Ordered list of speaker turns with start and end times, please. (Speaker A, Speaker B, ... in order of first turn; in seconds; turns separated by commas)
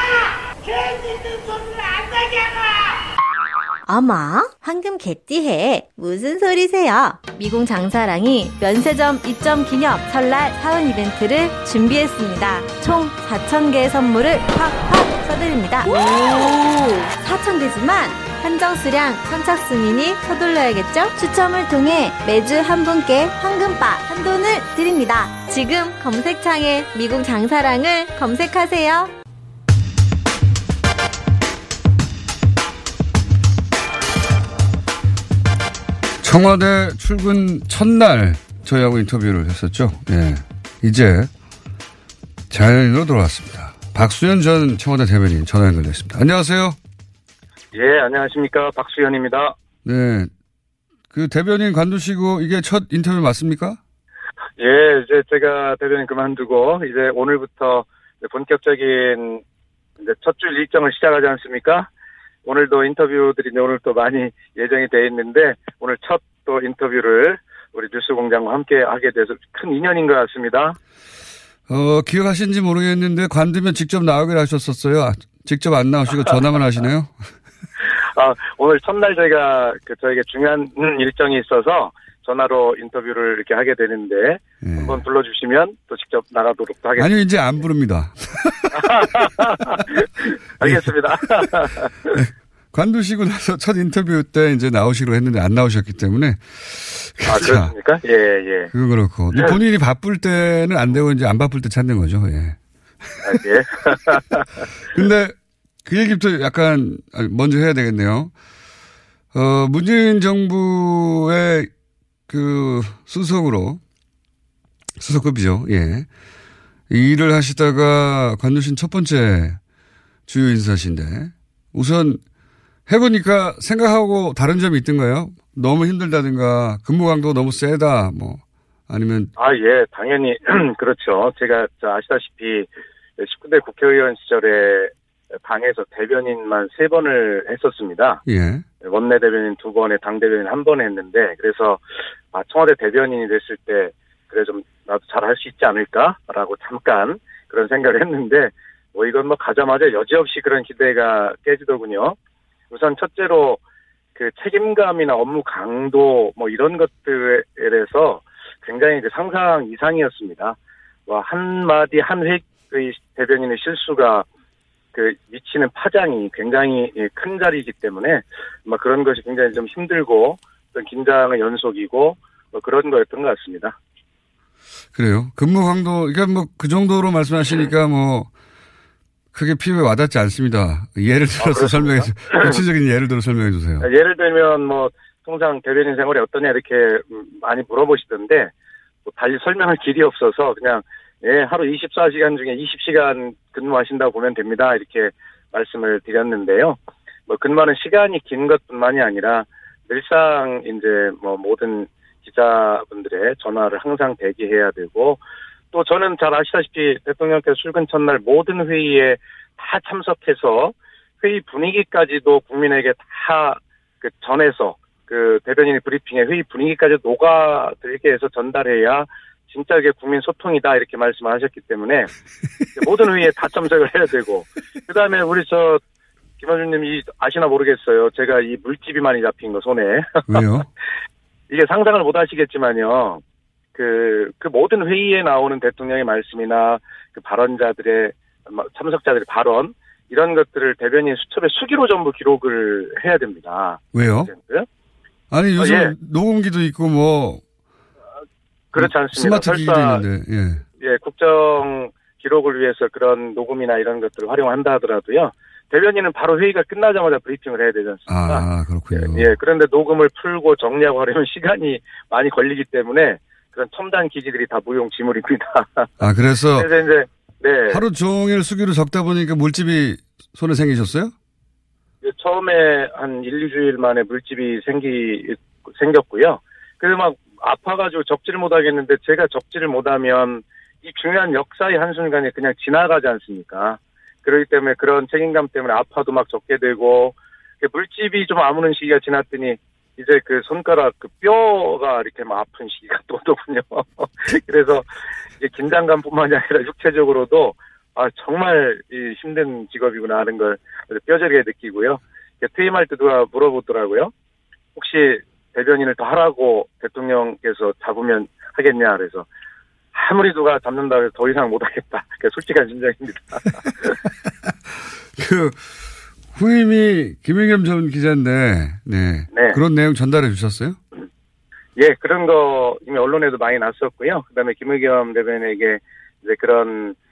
Speaker A: 3.9-29.1, Speaker B: 36.2-41.3, Speaker B: 42.5-46.8, Speaker C: 47.7-49.6, Speaker B: 49.9-50.3, Speaker B: 51.1-53.8, Speaker C: 54.6-59.4, Speaker C: 60.0-61.9, Speaker C: 62.5-70.8, Speaker B: 71.7-77.3, Speaker C: 78.1-87.1, Speaker B: 84.6-85.0, Speaker B: 87.0-89.0, Speaker C: 88.7-92.2, Speaker B: 90.6-91.0, Speaker B: 92.1-97.7, Speaker C: 97.3-98.7, Speaker B: 98.7-103.4, Speaker C: 103.2-104.5, Speaker B: 104.9-108.3, Speaker B: 109.3-111.7, Speaker B: 112.3-113.8, Speaker B: 115.0-116.1, Speaker B: 116.9-119.6, Speaker B: 120.3-122.2, Speaker B: 122.9-129.3, Speaker C: 129.4-138.2, Speaker B: 138.3-138.7, Speaker C: 138.8-152.2, Speaker C: 152.7-153.6, Speaker C: 154.2-164.3, Speaker C: 164.9-173.8, Speaker B: 174.9-178.3, Speaker B: 179.3-183.9, Speaker C: 181.4-182.6, Speaker C: 183.8-188.5, Speaker C: 189.1-196.8, Speaker C: 197.3-205.2, Speaker C: 205.7-222.1, Speaker C: 222.8-225.8, Speaker C: 226.4-230.2, Speaker B: 230.3-230.7, Speaker C: 231.5-233.2, Speaker C: 233.8-244.7, Speaker B: 243.9-244.3, Speaker B: 245.3-247.4, Speaker C: 245.6-245.9, Speaker C: 248.7-250.0, Speaker B: 248.8-250.6, Speaker C: 250.8-265.9, Speaker B: 258.1-259.3, Speaker B: 266.0-266.7, Speaker C: 266.6-267.8, Speaker B: 267.7-271.1, Speaker C: 272.0-294.9, Speaker C: 295.4-304.1, Speaker C: 304.8-309.2, Speaker C: 309.9-313.9, Speaker B: 315.1-315.6, Speaker B: 316.3-320.8, Speaker C: 319.3-319.6, Speaker C: 321.8-327.0